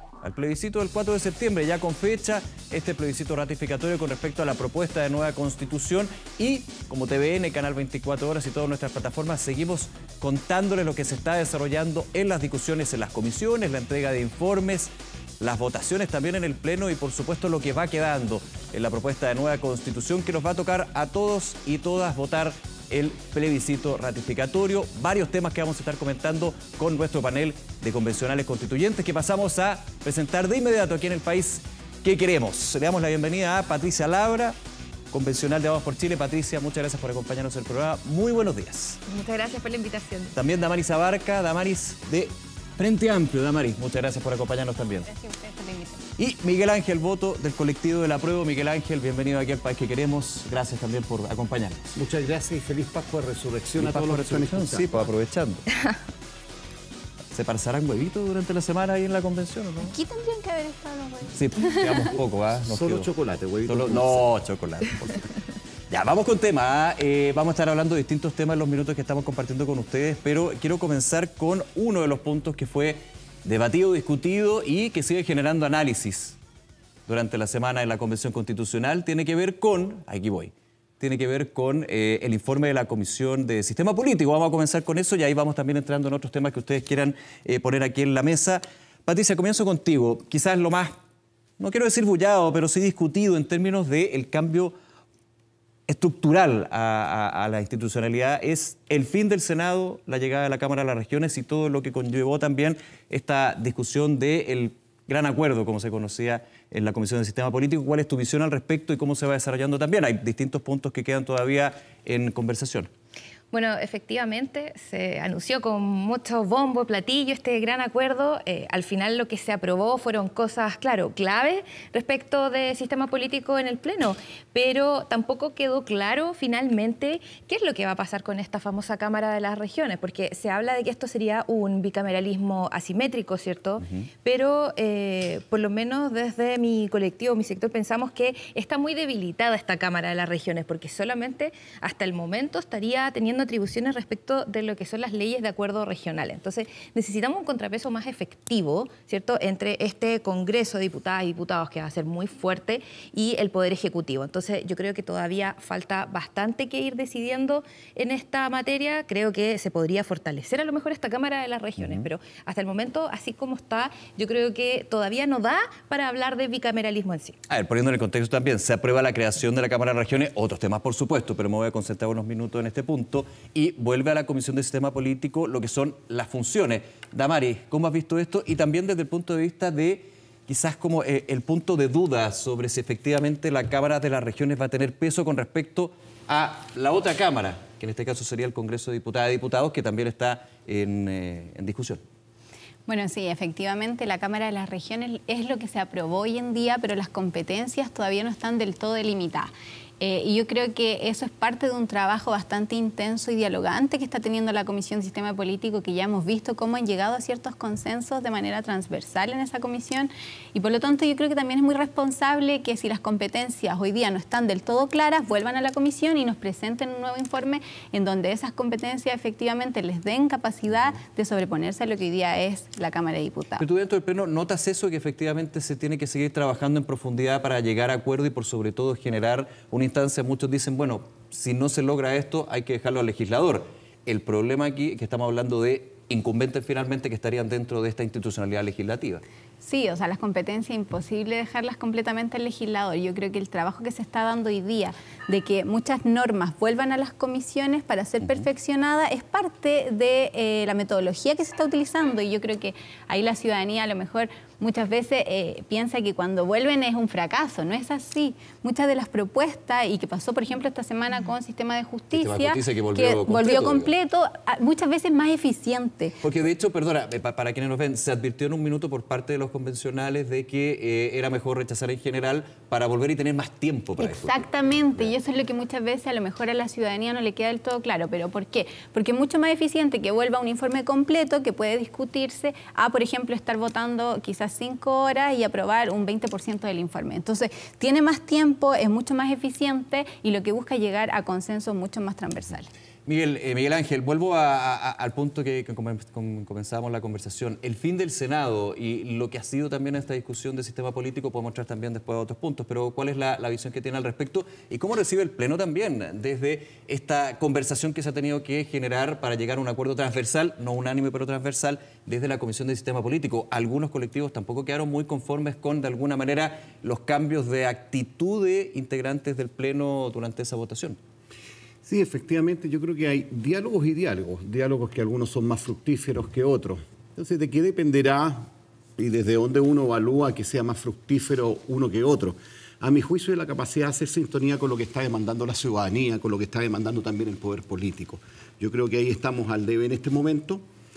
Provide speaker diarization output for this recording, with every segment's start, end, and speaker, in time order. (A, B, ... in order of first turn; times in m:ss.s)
0:00.2-0:34.6 A
0:35.1-0:39.0 A
0:39.1-0:40.3 B
0:40.3-0:45.1 A
0:45.0-0:46.0 C
0:46.2-0:51.9 A
0:51.9-0:55.1 D
0:53.8-0:55.6 A
0:57.3-0:59.9 A
0:59.8-1:02.1 C
1:01.4-1:03.1 A
1:02.6-1:04.3 D
1:03.7-1:05.3 A
1:05.9-1:16.4 A
1:17.1-1:31.0 A
1:31.6-1:34.7 A
1:35.9-1:52.9 A
1:53.5-2:47.4 B
2:13.8-2:14.1 A
2:41.8-2:42.1 A
2:47.5-3:12.0 A
3:12.9-3:43.6 C
3:43.6-3:59.2 A
3:59.6-4:26.2 C
4:22.1-4:23.9 A
4:26.2-4:34.4 A
4:34.0-4:52.7 C
4:53.0-5:21.0 A
5:21.8-5:40.6 D